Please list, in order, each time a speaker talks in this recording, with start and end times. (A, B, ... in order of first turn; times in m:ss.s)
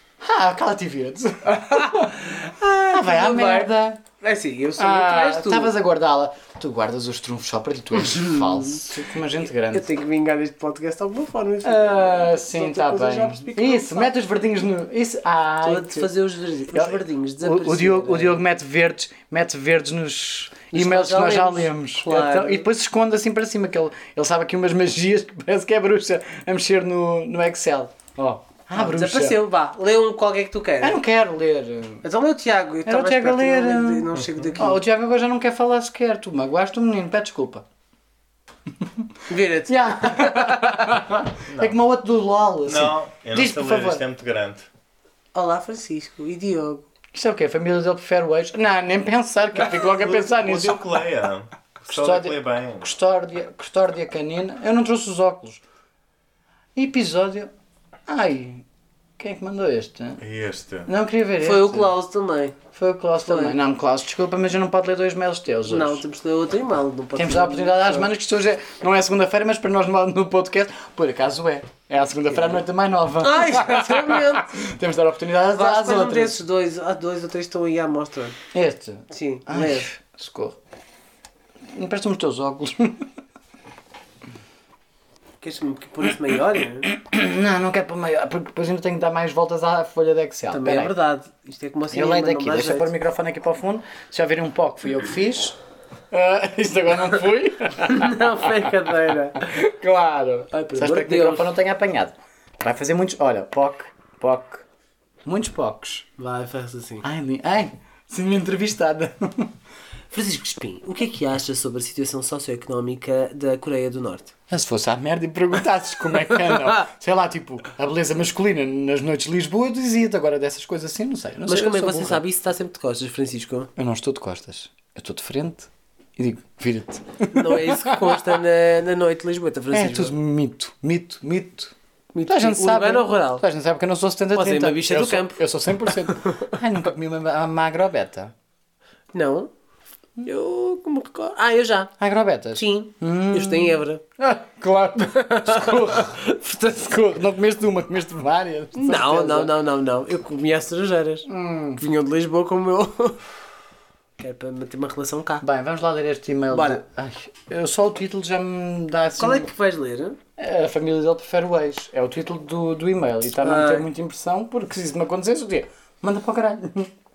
0:00.2-0:04.0 A
0:01.5-0:05.7 B
0:04.8-0:10.0 A
0:08.3-0:08.8 B
0:09.6-0:14.1 B
0:11.6-0:16.1 A
0:15.6-0:18.4 B
0:16.7-0:29.4 A
0:20.7-0:22.6 B
0:28.7-0:31.0 B
0:30.8-0:32.0 A
0:32.0-0:34.8 B
0:32.8-0:37.6 A
0:39.3-0:41.0 B
0:39.7-0:44.0 A
0:42.6-0:44.7 C
0:45.3-0:46.8 B
0:47.1-0:50.9 A
0:49.6-0:52.9 C
0:51.9-0:55.6 A
0:56.7-0:57.5 A
0:58.1-0:58.6 A
0:59.2-1:00.2 A
1:00.2-1:00.9 C
1:00.8-1:01.9 A
1:01.4-1:02.6 B
1:02.7-1:06.0 A
1:03.2-1:03.6 B
1:05.7-1:08.1 B
1:07.1-1:16.4 A
1:12.3-1:12.6 B
1:13.2-1:14.6 B
1:15.5-1:18.4 B
1:18.5-1:20.6 A
1:19.1-1:19.9 B
1:21.7-1:23.1 A
1:25.4-1:26.9 B
1:26.9-1:30.9 A
1:30.5-1:32.9 B
1:31.9-1:35.6 A
1:36.1-1:44.6 A
1:37.8-1:39.5 B
1:40.5-1:41.5 B
1:45.2-1:46.1 A
1:46.2-1:47.0 B
1:47.0-1:49.5 A
1:50.1-1:54.3 B
1:54.5-2:02.2 A
1:56.3-1:56.8 B
2:01.4-2:03.7 B
2:03.8-2:08.4 A
2:07.3-2:10.1 B
2:09.7-2:11.7 A
2:12.1-2:13.4 B
2:12.2-2:18.3 A
2:14.3-2:16.6 B
2:19.1-2:19.5 B
2:20.2-2:21.9 B
2:22.0-2:29.5 A
2:22.5-2:24.0 B
2:25.1-2:26.3 B
2:28.7-2:33.2 B
2:31.3-2:31.8 A
2:34.2-2:35.4 B
2:35.4-2:39.5 A
2:36.5-2:36.8 B
2:39.2-2:40.2 B
2:40.4-2:46.9 A
2:43.4-2:43.9 B